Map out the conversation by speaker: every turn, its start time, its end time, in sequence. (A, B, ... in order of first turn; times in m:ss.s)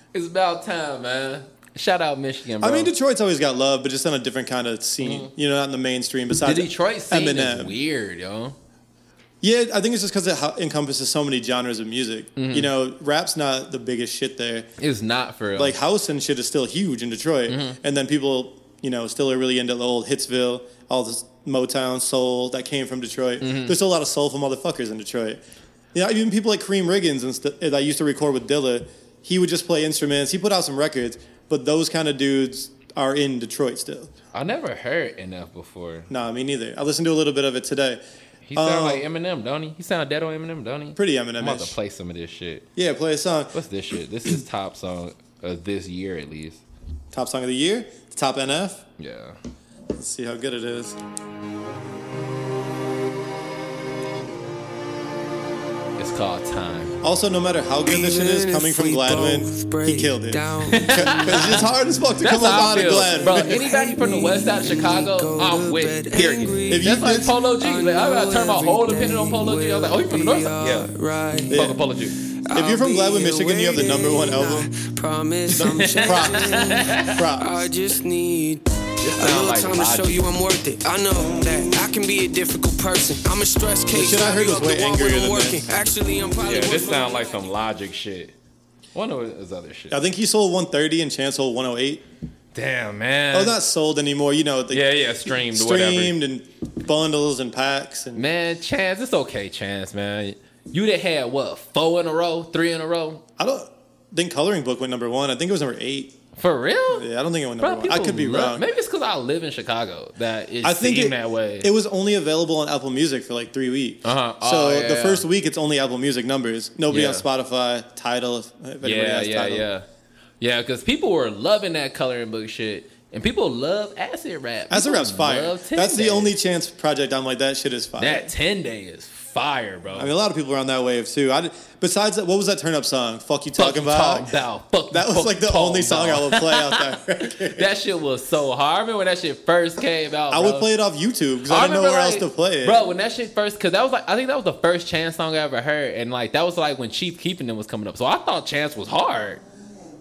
0:00.1-0:02.9 A
0:02.6-0:07.7 B
0:05.0-0:05.3 A
0:06.4-0:08.6 A
0:09.4-0:14.7 B
0:12.4-0:12.7 A
0:14.8-0:15.8 A
0:15.6-0:25.4 B
0:17.5-0:17.8 A
0:23.4-0:23.8 A
0:25.9-0:34.1 B
0:34.3-0:36.1 A
0:36.1-0:38.0 B
0:38.4-0:42.6 A
0:38.5-0:39.0 B
0:41.0-0:41.8 B
0:42.8-0:43.5 B
0:43.5-0:46.6 A
0:47.1-0:48.8 B
0:49.0-0:49.4 A
0:50.0-0:51.0 B
0:56.0-0:56.9 A
0:57.0-1:03.6 B
0:57.8-1:01.4 C
1:00.7-1:01.6 A
1:02.2-1:10.9 A
1:03.2-1:11.7 C
1:06.7-1:07.3 B
1:11.5-1:11.8 B
1:11.5-1:12.2 A
1:12.4-1:18.6 C
1:12.5-1:14.7 B
1:15.5-1:17.2 A
1:15.5-1:17.6 B
1:19.0-1:20.2 A
1:19.2-1:27.4 C
1:23.9-1:25.6 B
1:26.4-1:28.3 A
1:28.9-1:30.0 A
1:29.9-1:32.0 B
1:32.5-1:33.6 A
1:33.3-1:38.2 B
1:34.7-1:36.2 A
1:38.1-1:43.2 A
1:43.4-1:46.2 B
1:46.4-1:47.1 A
1:46.9-1:48.7 B
1:47.6-1:51.7 A
1:50.6-1:59.7 B
1:54.0-1:55.2 A
1:56.9-1:57.2 A
1:58.8-1:59.8 A
2:00.4-2:06.4 A
2:04.7-2:08.3 B
2:08.0-2:10.1 A
2:10.0-2:14.4 B
2:13.6-2:20.7 A
2:14.9-2:17.7 B
2:20.3-2:22.9 B
2:21.4-2:29.4 A